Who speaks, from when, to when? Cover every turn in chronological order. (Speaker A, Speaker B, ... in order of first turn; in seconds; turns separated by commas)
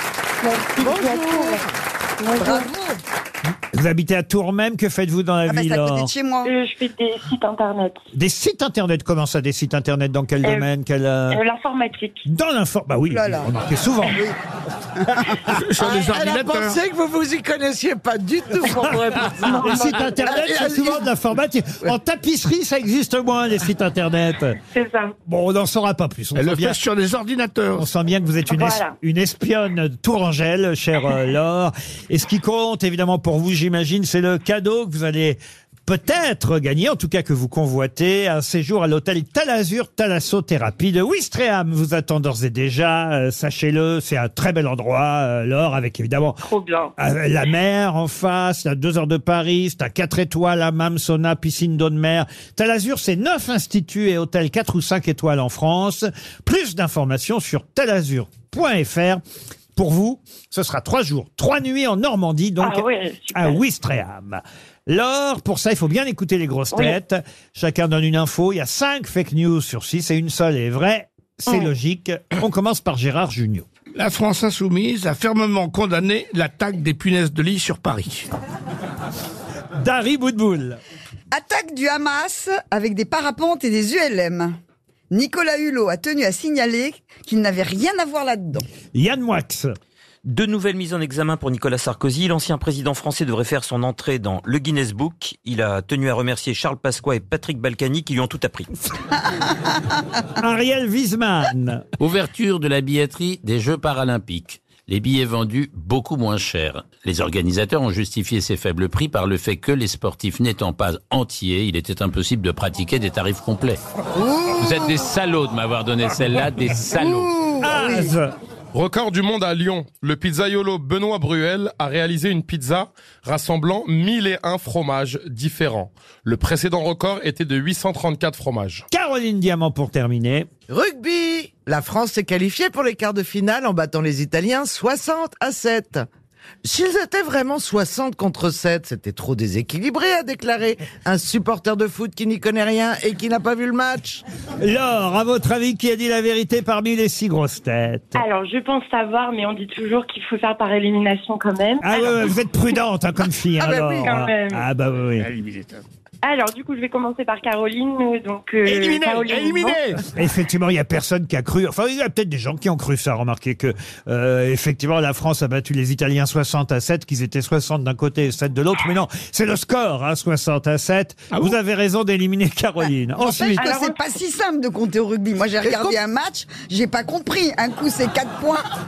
Speaker A: 0.4-1.6, Speaker B: 0.8-1.6, Speaker A: 2.2-2.7, Speaker B: 2.4-3.0, Speaker C: 3.7-6.1, Speaker D: 5.5-6.5, Speaker A: 6.4-8.0, Speaker C: 8.1-11.4, Speaker A: 11.3-12.2, Speaker C: 12.3-14.3, Speaker D: 13.1-13.5, Speaker E: 15.5-16.8, Speaker B: 15.8-21.1, Speaker A: 19.1-20.0, Speaker C: 19.6-24.6, Speaker A: 24.7-25.1, Speaker C: 25.3-26.8, Speaker E: 26.4-27.9, Speaker C: 27.8-46.4, Speaker A: 28.5-28.9, Speaker A: 46.5-46.9, Speaker C: 47.0-59.2, Speaker C: 59.8-73.7, Speaker A: 62.6-63.6, Speaker E: 74.0-78.3, Speaker C: 79.8-80.8, Speaker D: 81.3-84.5, Speaker D: 85.1-88.7, Speaker C: 88.9-89.7, Speaker F: 90.2-98.7, Speaker C: 100.4-101.9, Speaker G: 102.0-113.8, Speaker D: 114.1-114.9, Speaker G: 114.6-117.3, Speaker D: 117.0-118.1, Speaker C: 117.6-118.3, Speaker H: 118.7-128.8, Speaker C: 128.9-130.5, Speaker B: 130.7-136.1, Speaker B: 136.6-144.2, Speaker C: 144.6-148.2, Speaker A: 148.2-152.1, Speaker C: 151.8-155.3, Speaker B: 153.6-154.1, Speaker A: 154.0-154.7, Speaker E: 155.2-155.8, Speaker A: 156.2-159.8, Speaker E: 158.7-160.1, Speaker C: 160.1-173.7, Speaker D: 173.2-178.7, Speaker A: 173.6-174.0, Speaker B: 175.6-176.0